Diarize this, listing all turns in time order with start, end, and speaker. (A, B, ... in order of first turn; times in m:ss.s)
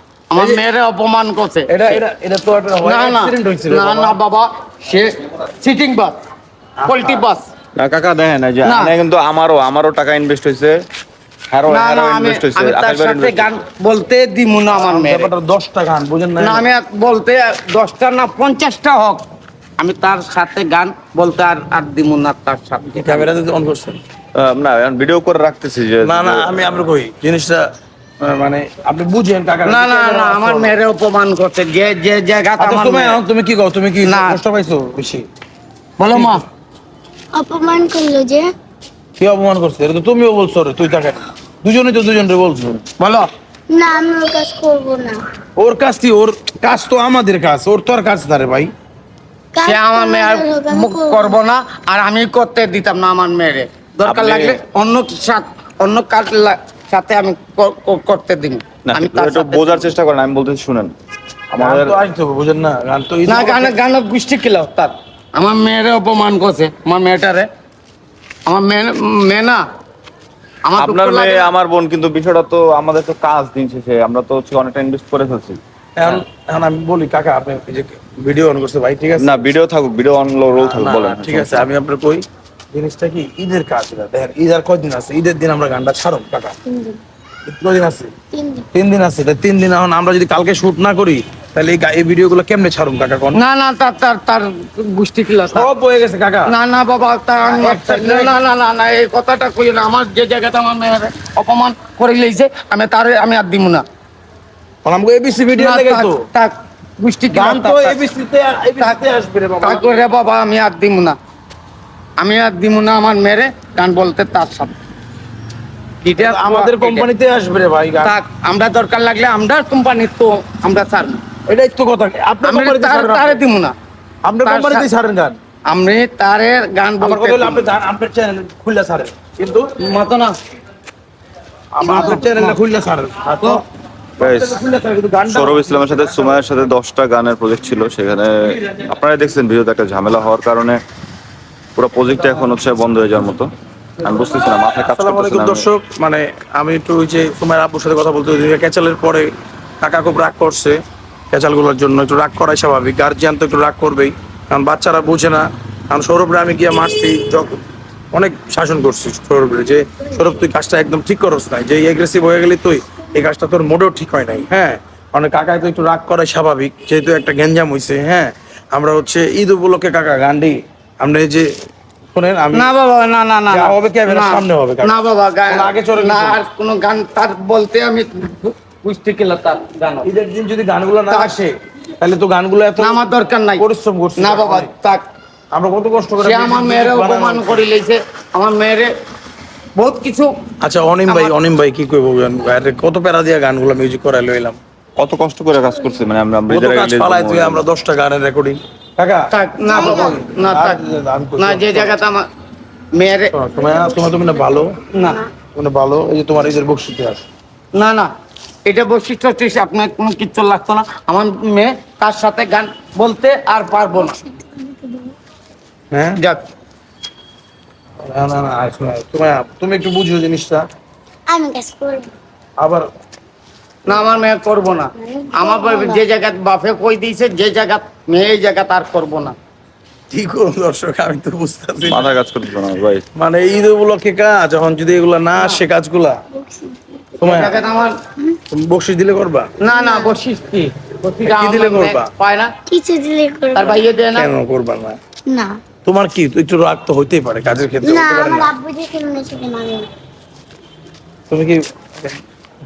0:00.3-0:02.0 A
0:00.4-0:00.6 B
0:01.7-0:04.2 B
0:02.8-0:06.2 A
0:06.8-0:07.2 B
0:06.9-0:07.4 A
0:07.8-0:10.8 C
0:08.6-0:08.9 A
0:11.5-0:13.5 C
0:11.7-0:15.3 A
0:14.7-0:16.7 B
0:16.4-0:19.2 A
0:19.8-0:23.3 A
0:23.0-0:24.0 B
0:24.4-0:26.9 C
0:26.0-0:27.7 B
0:28.2-0:30.8 B
0:29.6-0:33.2 A
0:32.6-0:35.3 B
0:34.0-0:34.4 A
0:36.0-0:36.4 A
0:36.1-0:36.4 B
0:37.4-0:38.5 D
0:39.2-0:42.8 B
0:43.0-0:43.3 A
0:43.7-0:45.2 D
0:45.6-0:48.7 B
0:49.5-0:51.4 D
0:49.6-0:59.9 A
0:54.0-0:54.6 C
0:58.9-1:00.9 C
1:01.5-1:02.0 C
1:01.6-1:03.8 B
1:03.3-1:07.5 A
1:08.5-1:09.6 A
1:10.6-1:11.5 A
1:10.8-1:16.2 C
1:16.0-1:19.4 B
1:19.2-1:21.7 C
1:20.5-1:26.6 B
1:26.7-1:27.0 D
1:27.5-1:28.1 B
1:28.3-1:28.7 D
1:28.7-1:33.4 B
1:33.3-1:35.7 A
1:35.5-1:36.5 B
1:36.5-1:43.8 A
1:37.4-1:38.3 B
1:44.8-1:46.2 B
1:45.5-1:48.0 A
1:47.3-1:50.0 B
1:49.6-1:51.2 A
1:52.2-1:54.7 A
1:56.0-1:57.1 A
1:56.2-1:58.2 B
1:58.0-2:01.2 A
2:01.5-2:03.4 B
2:02.4-2:03.7 A
2:04.2-2:05.4 B
2:04.4-2:04.9 A
2:05.7-2:07.7 A
2:07.0-2:09.7 B
2:09.8-2:10.4 A
2:11.7-2:13.6 B
2:11.8-2:12.6 A
2:11.8-2:12.2 D
2:14.2-2:16.4 B
2:14.2-2:14.6 C
2:15.3-2:20.8 C
2:21.8-2:25.7 C
2:24.1-2:51.6 B
2:52.1-2:52.7 B
2:52.5-3:00.1 A
2:53.5-2:54.9 B
2:55.5-2:56.4 B
3:00.0-3:03.0 B
3:02.8-3:03.6 A
3:03.6-3:04.7 B
3:04.2-3:05.0 A
3:05.5-3:07.6 B
3:06.2-3:08.9 A
3:09.8-3:10.3 A
3:10.6-3:14.6 B
3:11.1-3:11.4 A
3:15.0-3:17.6 C
3:16.5-3:22.0 B
3:19.3-3:20.8 A
3:19.7-3:20.2 D
3:21.4-3:22.2 A
3:23.0-3:23.3 A
3:23.3-3:24.8 B
3:23.6-3:24.4 D
3:24.9-3:25.2 A
3:25.6-3:27.2 B
3:27.8-3:28.1 A
3:28.7-3:34.2 A
3:34.0-3:35.1 D
3:35.9-3:36.2 B
3:38.0-3:40.7 B
3:41.3-3:42.1 D
3:42.6-3:42.9 B
3:43.9-3:49.4 A
3:45.0-3:46.0 D
3:50.1-3:52.1 B
3:51.9-3:53.0 C
3:53.2-3:56.2 B
3:55.4-3:55.6 A
3:56.3-3:57.1 D
3:57.2-3:57.6 B
3:57.2-3:57.9 A
3:58.5-3:59.5 B
3:59.6-4:02.5 A
3:59.7-4:00.2 D
4:01.2-4:02.1 B
4:02.7-4:03.8 D
4:03.6-4:04.3 A
4:03.6-4:05.0 B
4:05.3-4:05.6 D
4:05.8-4:08.5 B
4:07.8-4:09.9 D
4:11.3-4:12.2 B